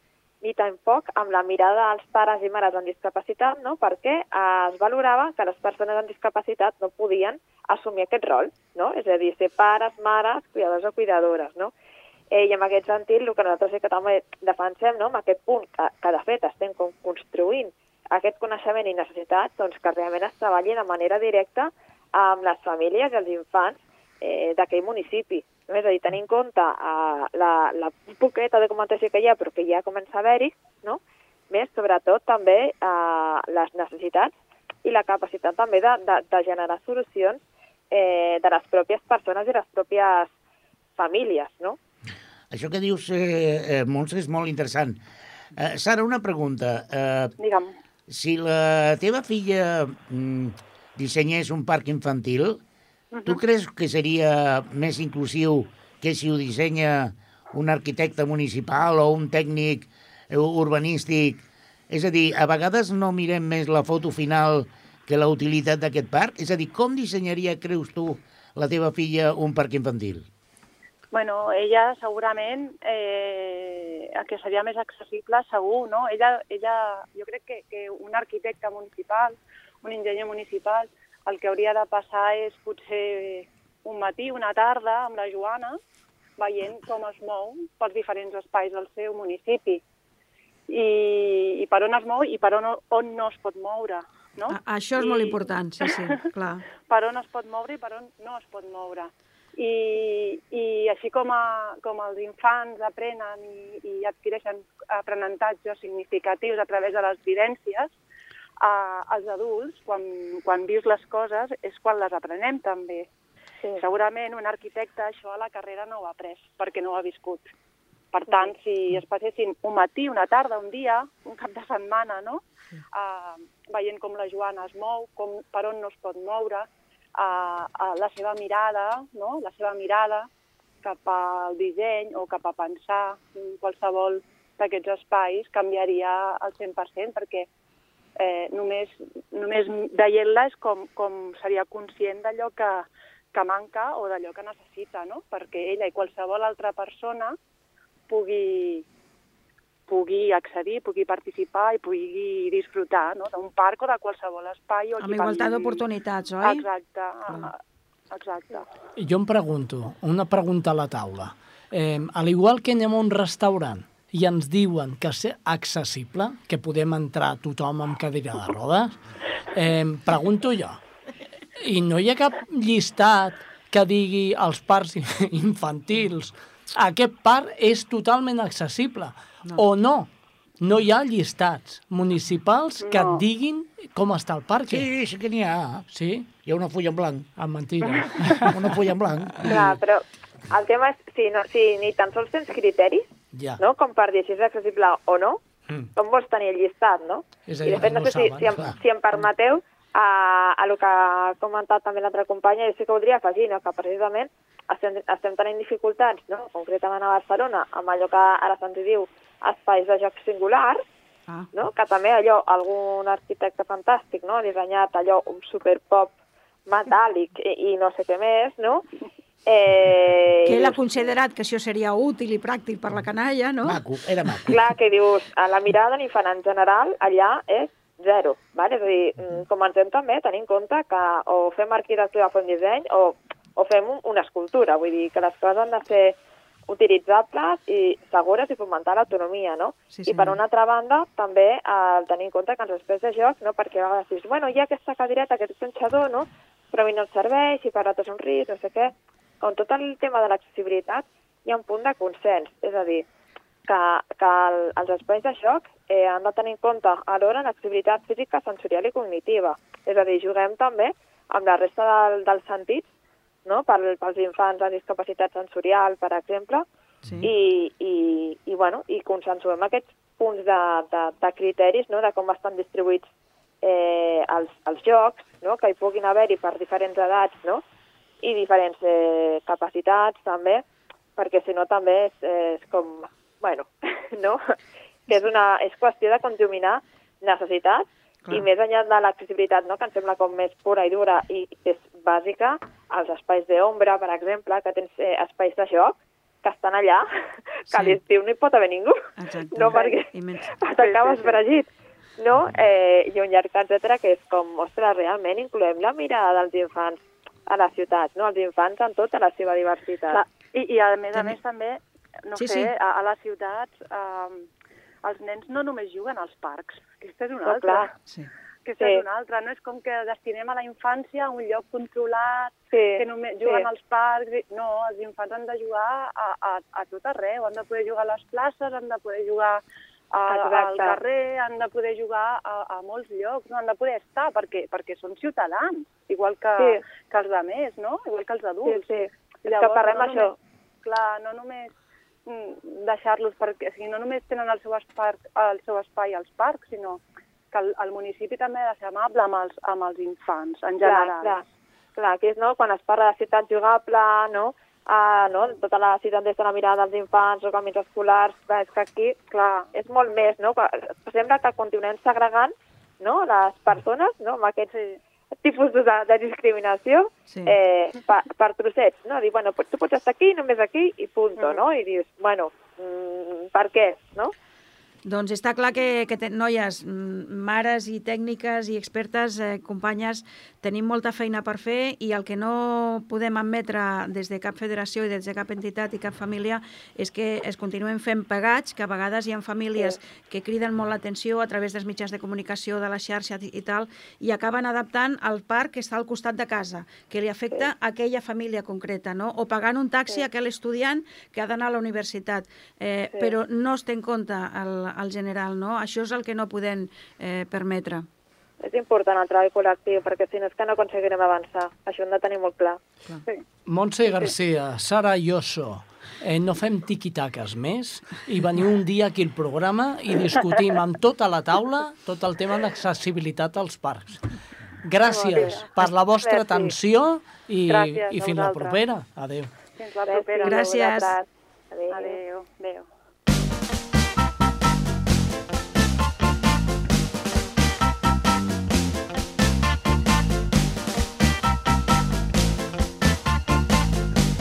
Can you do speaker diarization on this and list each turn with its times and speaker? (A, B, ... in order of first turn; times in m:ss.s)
0:00.4-0:11.7 A
0:12.3-0:31.0 A
0:31.5-0:34.3 A
0:34.8-0:37.4 A
0:37.9-0:40.3 A
0:41.0-0:41.8 A
0:42.5-0:45.0 B
0:45.6-0:47.3 B
0:47.4-0:47.7 C
0:48.1-0:52.6 B
0:53.1-0:53.4 C
0:53.2-1:10.3 B
1:11.1-1:25.8 C
1:26.4-1:29.8 C
1:30.7-1:36.2 C
1:34.5-1:36.6 D
1:36.9-1:47.9 C
1:48.6-1:53.1 C
1:53.8-1:57.5 C
1:58.1-2:02.4 C
2:02.9-2:10.3 C
2:10.8-2:17.5 C
2:18.2-2:27.4 C
2:28.1-2:28.8 C
2:29.9-2:35.9 C
2:35.0-2:36.6 D
2:36.4-2:37.6 C
2:38.1-2:38.7 C
2:39.0-2:49.0 E
2:49.5-2:50.8 E
2:51.6-3:00.1 E
3:00.6-3:04.9 E
3:02.8-3:03.2 C
3:04.7-3:05.8 B
3:05.9-3:06.3 E
3:06.4-3:07.3 B
3:07.4-3:08.6 E
3:08.2-3:09.5 B
3:09.4-3:13.0 A
3:13.3-3:13.6 E
3:13.6-3:15.4 A
3:16.0-3:30.8 A
3:17.5-3:18.6 E
3:31.5-3:36.1 A
3:36.7-3:38.8 A
3:39.4-3:41.1 A
3:40.4-3:43.8 D
3:43.6-3:44.6 B
3:44.5-3:56.2 A
3:56.7-4:13.0 A
3:59.9-4:00.4 D
4:13.7-4:22.8 A
4:23.4-4:26.6 A
4:27.0-4:27.3 D
4:27.2-4:33.0 A
4:33.6-4:37.6 A
4:38.2-4:40.6 A
4:41.2-4:44.4 A
4:45.1-4:57.1 A
4:57.7-4:59.0 A
4:57.7-4:58.0 D
4:59.2-5:00.5 D
4:59.5-5:00.0 A
5:00.6-5:01.7 A
5:00.8-5:01.3 C
5:02.2-5:10.2 A
5:10.1-5:14.4 C
5:12.4-5:12.7 D
5:15.0-5:17.9 C
5:17.4-5:17.9 A
5:18.6-5:29.6 C
5:22.7-5:23.7 A
5:30.1-5:41.7 C
5:30.3-5:31.0 A
5:38.6-5:40.3 A
5:42.2-5:47.0 C
5:47.5-5:51.4 C
5:50.8-5:51.4 A
5:52.0-5:59.2 A
5:59.3-5:59.7 C
5:59.7-6:04.7 A
6:04.7-6:05.0 C
6:05.4-6:14.3 A
6:07.3-6:07.5 D
6:11.4-6:11.6 C
6:15.0-6:48.1 D
6:48.6-6:52.8 A
6:53.7-7:04.2 E
7:04.8-7:09.5 E
7:05.0-7:06.7 A
7:05.3-7:05.9 C
7:07.7-7:08.8 C
7:09.8-7:11.1 C
7:10.0-7:12.2 A
7:10.4-7:11.1 D
7:11.9-7:12.9 C